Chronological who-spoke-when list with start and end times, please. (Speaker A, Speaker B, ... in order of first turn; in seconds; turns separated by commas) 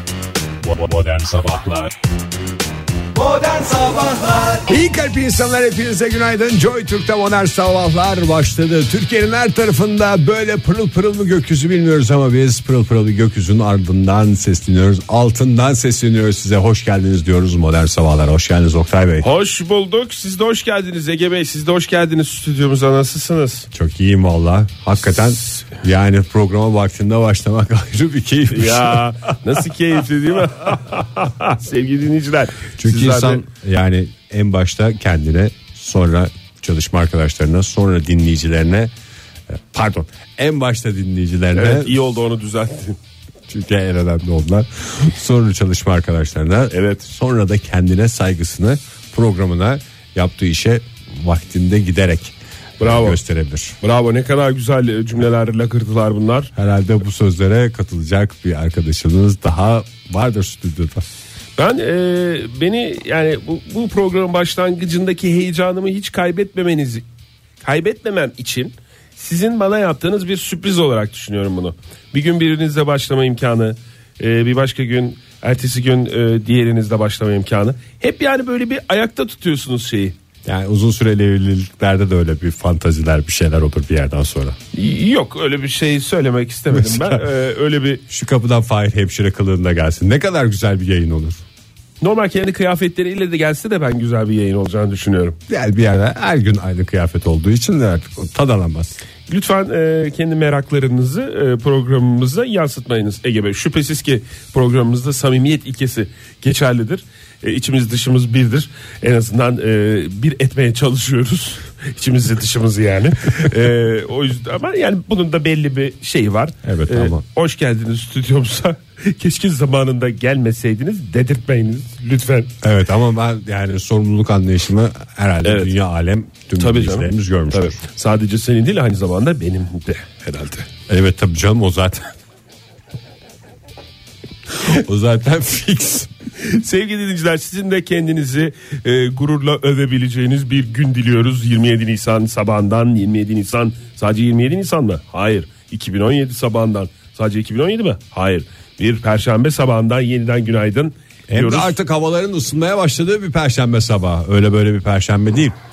Speaker A: 0.6-1.9, Speaker A: 3.6-19.3, Speaker B: 19.2-23.7, Speaker A: 23.7-29.6, Speaker B: 28.5-33.4, Speaker A: 32.8-38.9, Speaker A: 39.5-42.0, Speaker B: 41.5-43.0, Speaker A: 43.5-53.8, Speaker B: 46.7-47.1, Speaker B: 52.8-53.2, Speaker B: 53.8-56.5, Speaker A: 56.6-61.1, Speaker B: 61.6-67.0, Speaker B: 67.6-80.2, Speaker A: 80.5-84.6, Speaker B: 84.7-88.0, Speaker A: 86.7-87.2, Speaker A: 88.1-91.4, Speaker B: 92.0-95.4, Speaker A: 95.5-99.0, Speaker B: 99.3-122.5, Speaker A: 116.6-117.2, Speaker A: 122.6-127.8, Speaker B: 125.4-125.7, Speaker B: 126.6-130.7, Speaker A: 130.9-132.1, Speaker A: 134.6-136.1, Speaker B: 136.4-151.8, Speaker A: 151.3-155.6